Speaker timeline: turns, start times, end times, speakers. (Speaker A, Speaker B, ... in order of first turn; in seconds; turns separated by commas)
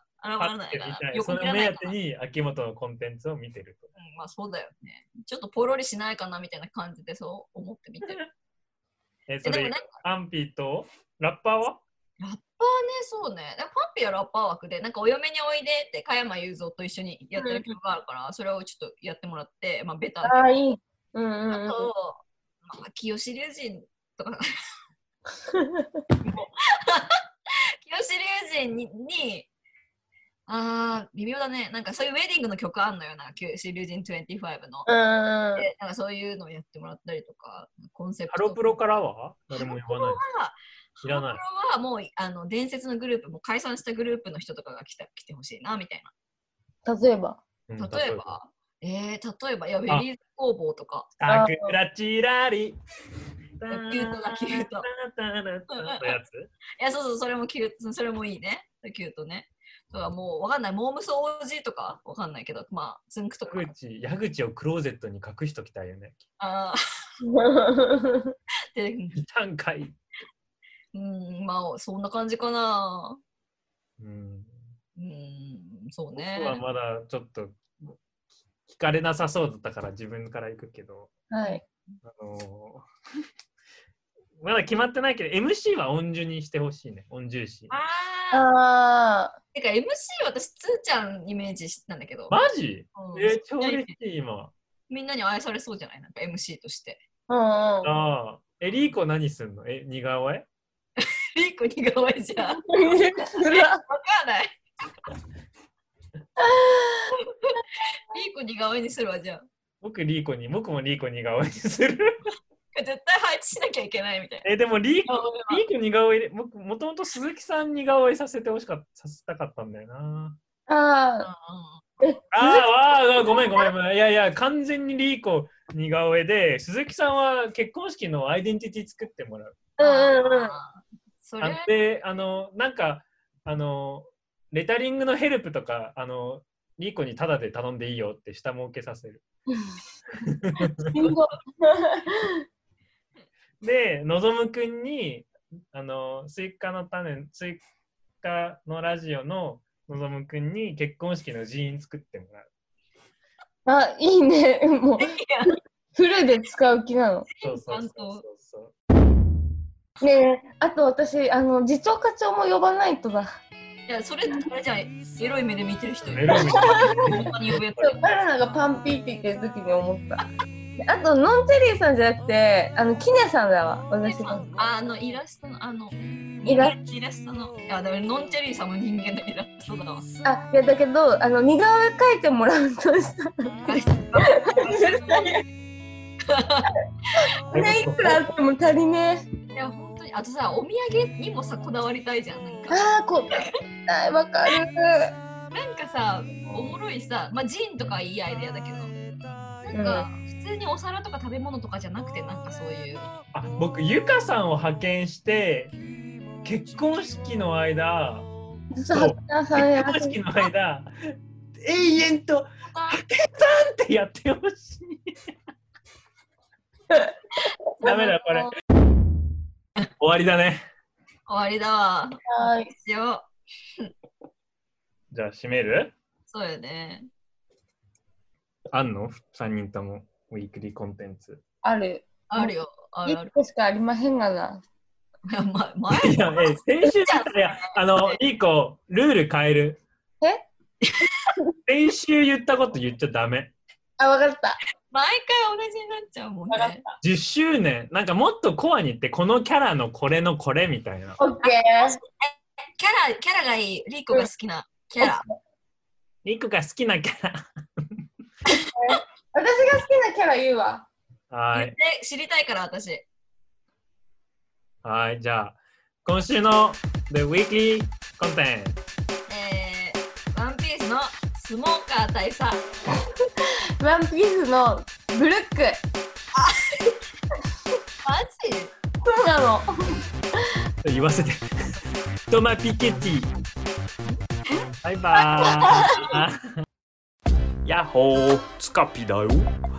Speaker A: 0.2-1.9, Speaker B: 0.4-3.9, Speaker A: 4.0-8.2, Speaker B: 9.3-11.8, Speaker A: 9.4-10.0, Speaker A: 12.2-20.4, Speaker C: 17.4-17.7, Speaker C: 20.2-21.9, Speaker A: 21.5-24.4, Speaker C: 25.5-26.0, Speaker A: 26.2-27.2, Speaker A: 27.9-29.5, Speaker A: 30.5-34.9, Speaker C: 34.9-35.7, Speaker A: 35.6-38.8, Speaker B: 38.3-40.2, Speaker A: 39.5-46.1, Speaker B: 41.0-41.4, Speaker C: 46.9-47.4, Speaker B: 47.7-48.4, Speaker A: 47.8-51.1, Speaker B: 51.2-52.8, Speaker C: 51.3-51.8, Speaker B: 53.6-56.5, Speaker A: 53.7-54.9, Speaker A: 55.7-56.1, Speaker A: 56.8-63.7, Speaker B: 63.5-66.2, Speaker A: 66.4-66.8, Speaker C: 67.2-68.3, Speaker A: 68.8-69.2, Speaker B: 69.2-70.0, Speaker A: 70.9-73.2, Speaker B: 74.0-74.6, Speaker A: 75.0-76.6, Speaker B: 76.2-78.0, Speaker B: 78.7-81.1, Speaker C: 81.3-81.6, Speaker B: 82.0-82.9, Speaker B: 84.4-87.7, Speaker A: 87.7-88.5, Speaker C: 88.3-89.4, Speaker A: 89.5-92.3, Speaker B: 92.3-94.5, Speaker A: 93.0-93.9, Speaker A: 94.9-97.0, Speaker C: 97.3-97.9, Speaker B: 97.8-100.5, Speaker A: 101.0-102.7, Speaker C: 102.6-103.8, Speaker A: 103.3-104.6, Speaker C: 106.4-107.2, Speaker A: 107.2-109.5, Speaker B: 109.8-112.2, Speaker A: 112.7-114.5, Speaker B: 114.4-120.4, Speaker A: 115.1-115.6, Speaker C: 120.7-121.3, Speaker A: 121.2-121.8, Speaker C: 122.0-123.7, Speaker B: 122.3-129.6, Speaker C: 129.8-130.6, Speaker A: 129.8-131.7, Speaker B: 131.4-139.2, Speaker B: 140.3-141.1, Speaker C: 140.8-142.4, Speaker B: 143.6-147.6, Speaker B: 148.2-152.5, Speaker C: 153.7-155.1, Speaker A: 155.0-155.6, Speaker C: 155.9-157.3, Speaker A: 157.3-158.2, Speaker B: 157.4-158.7, Speaker C: 160.0-163.3, Speaker A: 163.9-168.0, Speaker B: 166.1-167.3, Speaker C: 166.3-170.2, Speaker C: 170.8-174.5, Speaker A: 174.0-180.1, Speaker C: 176.4-176.8, Speaker C: 180.2-185.4, Speaker A: 183.7-185.4, Speaker A: 186.3-187.3, Speaker C: 187.5-189.3, Speaker B: 187.5-188.3, Speaker A: 189.6-193.6, Speaker C: 192.7-195.1, Speaker A: 195.5-198.9, Speaker B: 196.5-196.8, Speaker A: 199.7-203.1, Speaker C: 199.7-200.1, Speaker B: 203.3-205.7, Speaker B: 206.4-208.3, Speaker C: 208.8-210.2, Speaker B: 208.9-210.9, Speaker B: 211.6-215.1, Speaker A: 212.7-213.0, Speaker A: 217.8-218.5, Speaker B: 217.8-218.5, Speaker B: 220.0-220.6, Speaker A: 221.3-223.3, Speaker C: 222.3-222.7, Speaker B: 225.1-225.9, Speaker A: 226.3-227.1, Speaker B: 228.7-231.4, Speaker C: 231.6-232.5, Speaker A: 232.3-233.3, Speaker C: 233.1-234.6, Speaker A: 235.3-238.2, Speaker B: 235.9-239.8, Speaker A: 240.8-241.3, Speaker B: 241.7-243.5, Speaker C: 244.0-244.6, Speaker A: 244.9-246.8, Speaker C: 246.5-247.0, Speaker B: 247.0-251.2, Speaker C: 251.2-252.0, Speaker A: 251.4-255.3, Speaker C: 255.0-255.3, Speaker B: 256.2-257.8, Speaker C: 258.6-260.9, Speaker B: 261.3-261.8, Speaker A: 261.5-263.1, Speaker B: 264.8-268.8, Speaker A: 269.3-272.6, Speaker C: 273.4-275.8, Speaker A: 276.4-276.9, Speaker A: 278.0-278.7, Speaker C: 279.0-280.0, Speaker B: 280.8-281.4, Speaker B: 282.3-283.3, Speaker B: 284.8-286.4, Speaker C: 285.4-286.1, Speaker B: 287.6-289.5